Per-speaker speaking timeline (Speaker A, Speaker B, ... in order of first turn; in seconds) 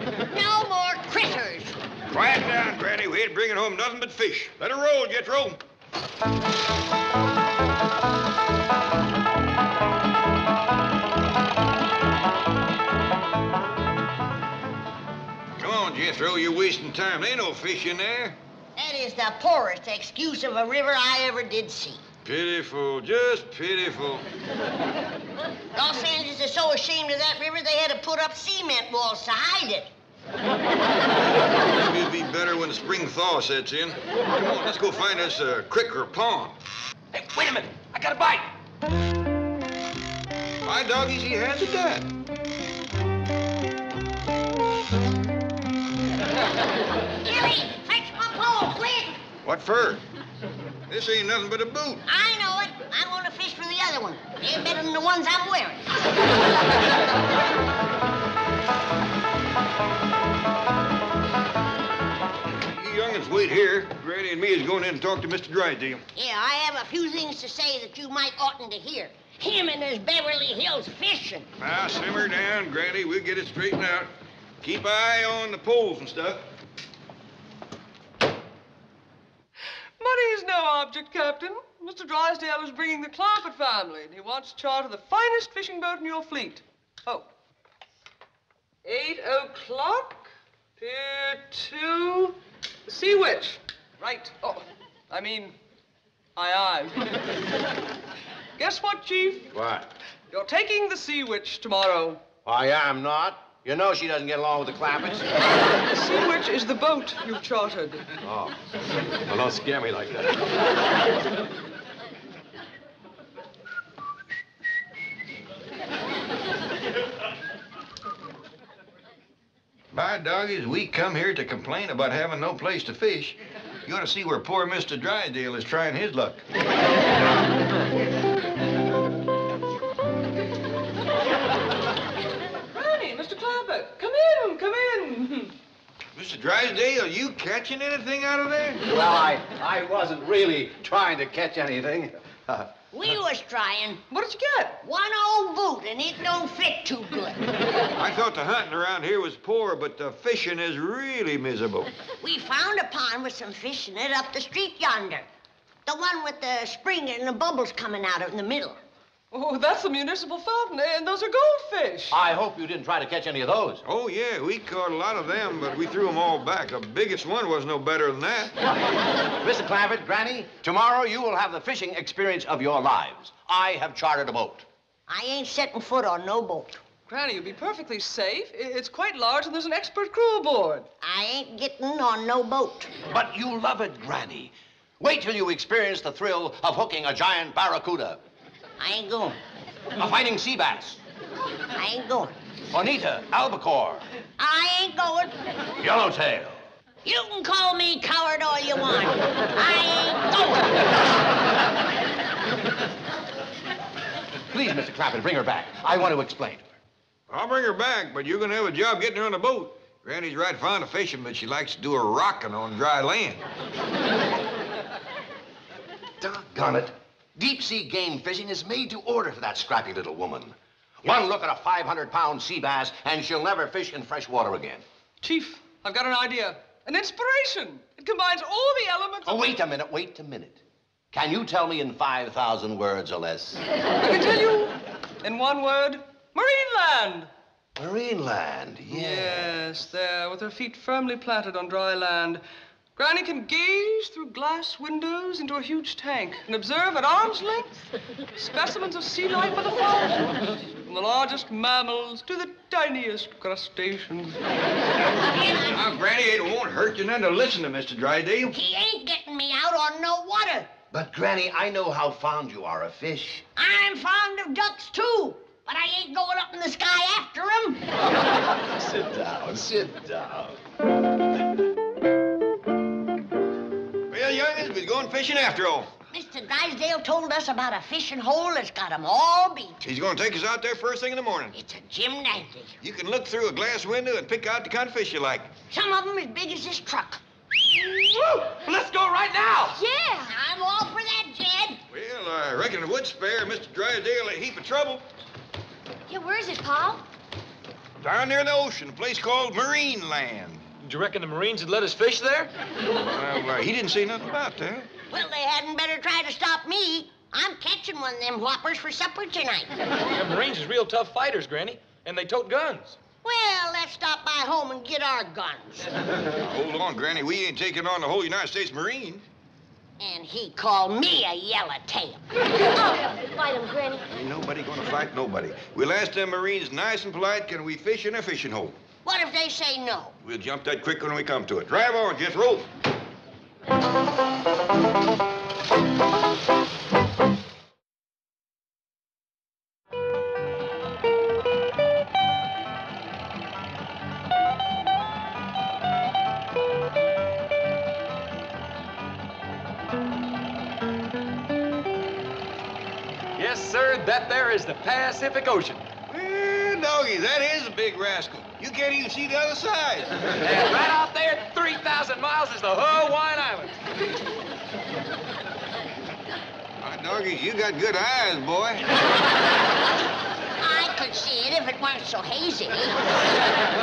Speaker A: 0.3-1.8, 18.8-22.0, 25.7-29.9, 47.2-49.2, 52.0-55.9, 66.1-71.5, 142.9-144.0, 144.8-147.4, 152.2-155.2, 155.8-158.8, 175.1-176.8, 181.0-182.9, 188.8-189.4, 191.7-192.3, 194.4-195.3, 197.0-200.7, 255.2-255.8, 258.5-260.7, 263.6-267.8, 276.1-279.8, 281.5-282.8, 285.7-287.2, 290.3-291.8, 305.1-309.7, 313.2-315.9, 320.0-322.2, 329.0-330.1, 370.6-372.9
Speaker B: 2.1-5.6, 15.6-18.4, 22.2-24.2, 31.6-36.5, 40.6-42.1, 49.4-50.0, 50.9-52.0, 62.6-66.0, 71.6-74.1, 74.6-76.4, 119.9-126.4, 136.1-138.8, 147.9-151.9, 163.8-168.5, 207.3-213.4, 255.7-258.5, 274.1-275.9, 279.8-281.5, 282.8-285.5, 291.9-295.0, 298.0-300.6, 303.0-304.9, 316.4-319.2, 324.1-328.8, 330.2-332.7, 356.1-360.1, 366.8-368.8
Speaker C: 37.1-38.5, 287.8-289.8, 300.8-302.5, 310.1-313.0, 353.4-355.9, 360.3-363.8
Speaker D: 80.0-87.3, 88.8-95.6, 96.3-97.1, 98.6-99.5, 100.3-102.2, 105.8-108.1, 132.7-135.6, 144.1-144.8, 159.3-162.2, 177.1-180.9, 225.2-229.5, 234.0-237.3, 238.9-242.4, 242.9-247.8, 248.3-254.4
Speaker E: 99.5-99.9, 102.4-105.3, 108.2-108.5, 109.3-110.3, 138.9-142.1, 162.1-163.8, 169.4-174.7, 183.1-188.2, 189.9-191.0, 192.7-194.0, 195.8-196.6, 204.5-206.7, 216.2-224.8, 229.2-233.6, 237.8-239.5, 260.9-263.4, 268.8-270.5
Speaker F: 289.7-290.3, 296.1-297.0, 322.7-324.0